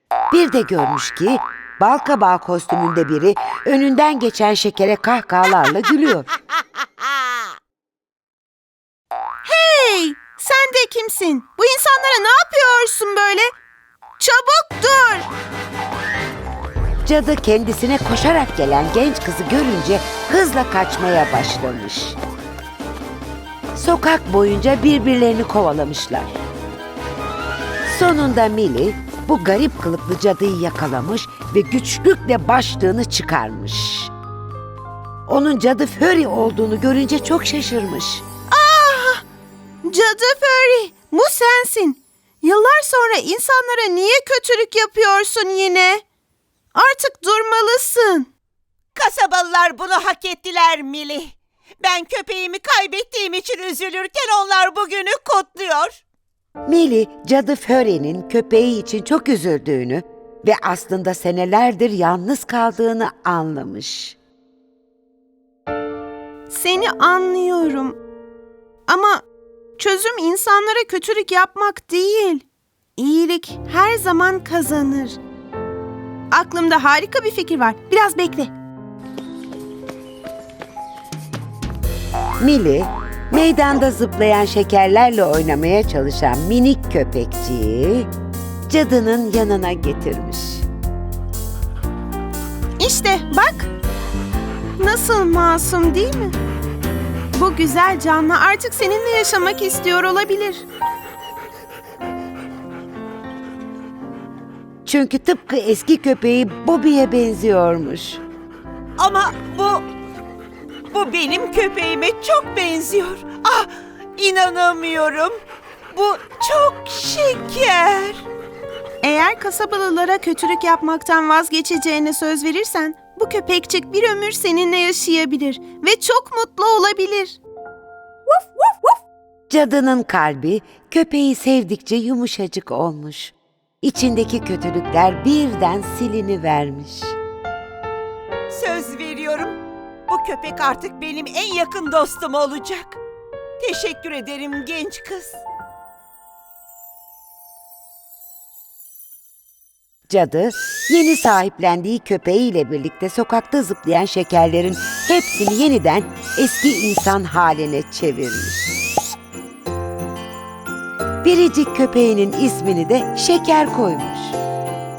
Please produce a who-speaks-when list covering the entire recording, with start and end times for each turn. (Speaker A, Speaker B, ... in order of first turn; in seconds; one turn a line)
Speaker A: 0.3-6.3
Speaker B: 9.4-13.5
Speaker B: 14.2-15.3
Speaker A: 17.0-22.2
Speaker A: 23.8-26.4
Speaker A: 27.9-34.1
Speaker A: 35.3-38.2
Speaker B: 38.5-39.2
Speaker B: 39.8-46.0
Speaker B: 46.7-48.3
Speaker C: 49.0-56.0
Speaker A: 56.6-64.2
Speaker B: 66.5-68.0
Speaker B: 68.9-69.2
Speaker B: 69.8-72.4
Speaker B: 73.0-75.2
Speaker B: 76.3-78.5
Speaker A: 82.4-88.1
Speaker A: 88.7-90.7
Speaker B: 92.8-93.7
Speaker B: 94.8-96.3
Speaker B: 97.3-100.6
Speaker A: 104.8-108.2
Speaker C: 109.0-109.8
Speaker C: 110.9-115.4
Speaker C: 115.9-118.2
Speaker B: 119.0-127.4
Speaker A: 129.5-137.2
Speaker C: 138.5-143.0
Speaker C: 143.6-145.4
Speaker A: 150.1-158.7
Speaker A: 161.2-164.4